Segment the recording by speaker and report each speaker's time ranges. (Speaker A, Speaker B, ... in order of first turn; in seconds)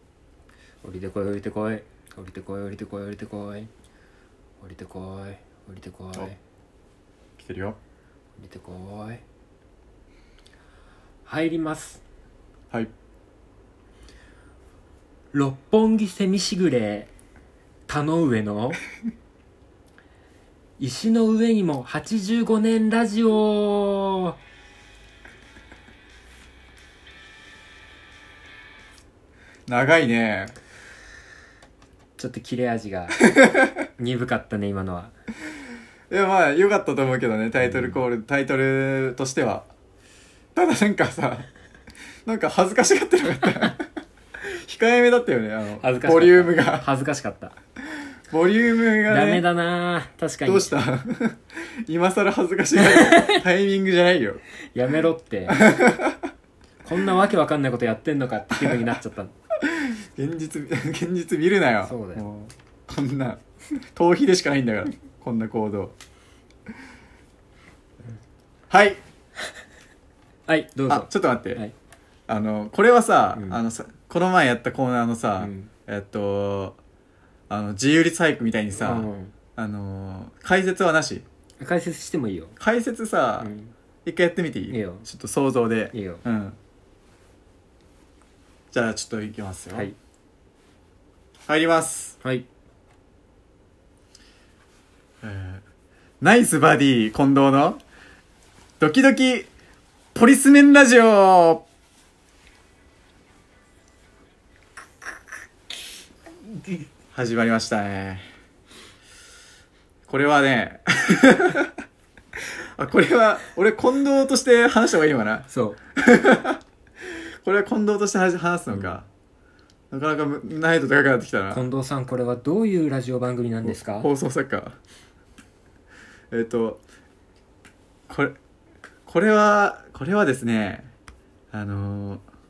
Speaker A: 0.8-3.7, 4.6-6.4, 8.4-9.2, 11.2-12.0, 15.3-17.1, 17.9-18.8, 20.8-24.3, 32.2-33.2, 34.0-35.1, 37.6-38.0, 45.8-47.5, 49.1-50.8, 52.8-53.4, 54.7-55.6, 56.8-59.3, 61.8-62.2, 70.5-71.7, 75.4-75.7, 78.8-79.3, 81.6-82.6, 83.4-83.7, 84.7-85.1, 85.9-86.2, 115.5-115.8, 121.5-124.1
Speaker B: 7.4-7.8, 29.7-30.5, 36.1-39.7, 40.5-41.5, 42.2-43.9, 44.4-46.9, 48.3-49.4, 50.5-54.4, 55.5-56.2, 59.7-63.4, 63.9-65.9, 68.7-69.0, 70.9-71.6, 72.3-76.8, 77.5-81.2, 82.6-83.5, 84.0-86.6, 88.7-89.9, 91.5-92.2, 95.2-95.6, 96.2-97.8, 98.8-99.5, 100.1-101.6, 107.1-108.2, 110.1-111.7, 112.8-116.6, 117.4-119.0, 119.9-121.6, 123.6-124.8, 126.3-126.8, 128.1-128.4, 129.1-130.9, 131.5-132.2